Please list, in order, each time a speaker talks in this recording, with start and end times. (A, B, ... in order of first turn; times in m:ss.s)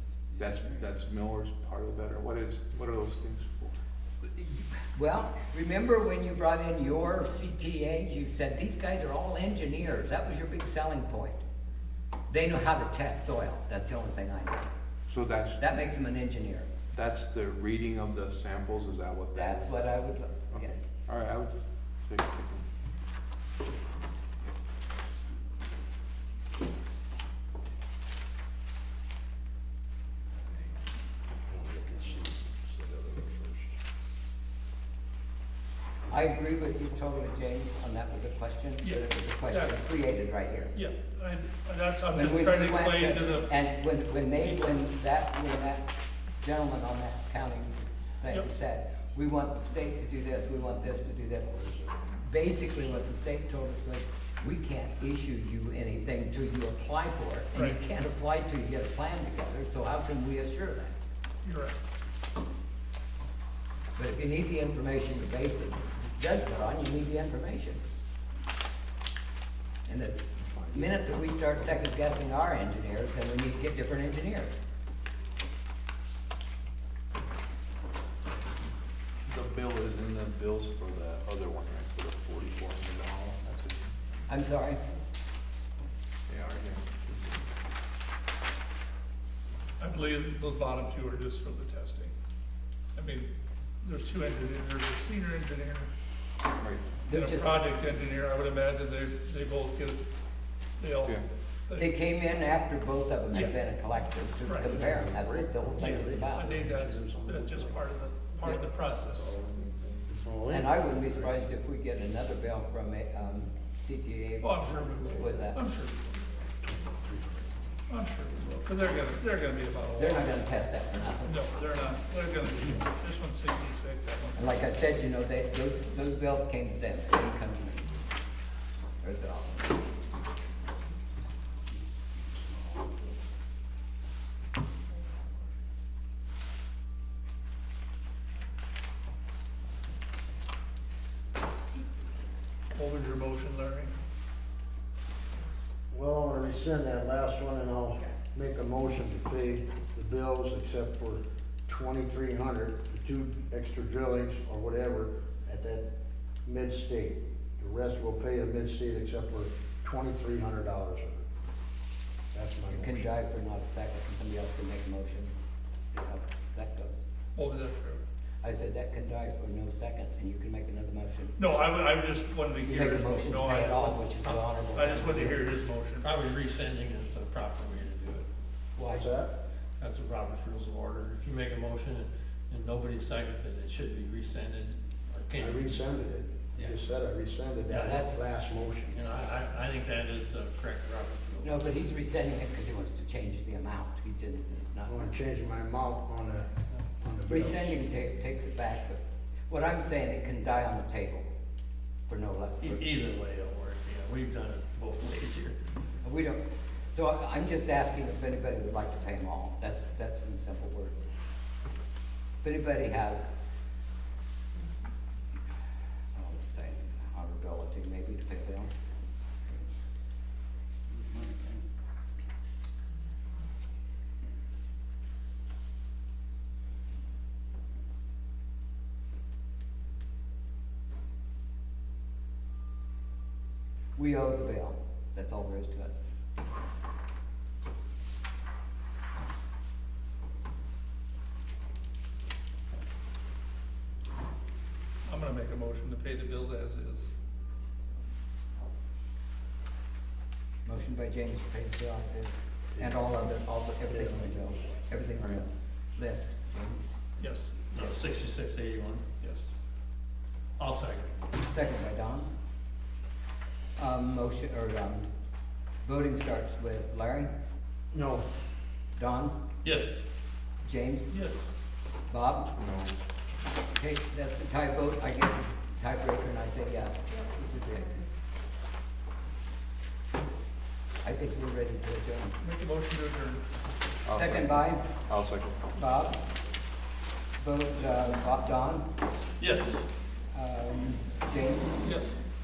0:00.4-0:03.8 A
0:04.3-0:11.4 B
0:12.3-0:14.7 B
0:15.1-0:15.6 A
0:15.6-0:16.7 B
0:16.9-0:19.7 A
0:19.3-0:20.9 B
0:20.5-0:22.6 A
0:31.5-0:33.7 C
0:36.1-0:40.7 B
0:38.8-0:39.8 D
0:40.7-0:43.5 D
0:42.1-1:00.9 B
0:51.6-0:52.0 C
1:01.4-1:01.8 D
1:04.0-1:07.8 B
1:09.9-1:14.5 B
1:10.4-1:11.0 C
1:19.3-1:24.0 A
1:24.3-1:24.8 B
1:26.3-1:27.4 A
1:29.8-1:32.1 D
1:33.0-1:33.3 D
1:33.8-1:35.9 D
1:37.1-1:37.6 B
1:37.1-1:40.0 D
1:40.8-1:42.0 D
1:41.8-1:46.6 B
1:43.3-1:43.6 D
1:44.6-1:47.9 C
1:46.3-1:49.4 D
1:49.0-1:49.3 C
1:49.4-1:50.0 A
1:50.1-1:51.4 C
1:50.5-1:55.6 B
1:54.4-1:56.1 D
1:57.1-1:57.4 C
1:57.9-2:00.3 D
2:00.0-2:01.3 B
2:01.2-2:04.7 D
2:04.4-2:07.9 B
2:09.0-2:09.8 B
2:22.7-2:23.9 D
2:25.9-2:35.9 C
2:36.4-2:41.3 C
2:42.3-2:43.0 C
2:42.7-2:45.3 B
2:45.9-2:47.0 B
2:47.4-2:48.0 D
2:48.4-2:51.4 B
2:51.4-2:56.1 D
2:52.6-2:55.5 B
2:56.0-2:58.2 E
2:58.8-2:59.0 B
2:58.9-2:59.3 C
2:59.8-3:04.8 E
3:05.3-3:09.1 C
3:05.4-3:05.9 E
3:09.1-3:11.5 E
3:11.4-3:15.1 B
3:14.9-3:17.8 C
3:17.2-3:21.3 B
3:22.1-3:22.8 B
3:22.6-3:25.6 E
3:26.0-3:31.1 B
3:32.4-3:33.2 B
3:36.1-3:38.7 B
3:40.9-3:41.6 B
3:54.0-3:55.9 B
4:05.0-4:07.1 D
4:10.6-4:16.8 B
4:12.7-4:13.0 C
4:13.8-4:14.5 C
4:17.2-4:17.6 D
4:17.6-4:19.4 E
4:20.6-4:21.1 E
4:21.4-4:22.3 B
4:23.8-4:25.1 B
4:25.8-4:27.3 B
4:27.9-4:28.3 C
4:28.9-4:29.4 B
4:29.6-4:30.0 E
4:30.6-4:31.1 B
4:31.1-4:31.5 E
4:32.1-4:32.5 B
4:32.6-4:32.9 A
4:33.8-4:38.0 B
4:41.0-4:42.4 B
4:42.4-4:43.4 D
4:44.0-4:45.6 A
4:44.1-4:44.8 B
4:45.8-4:46.2 B
4:47.4-4:48.9 B
4:49.4-4:49.8 E
4:50.3-4:51.9 B
4:51.8-4:52.2 D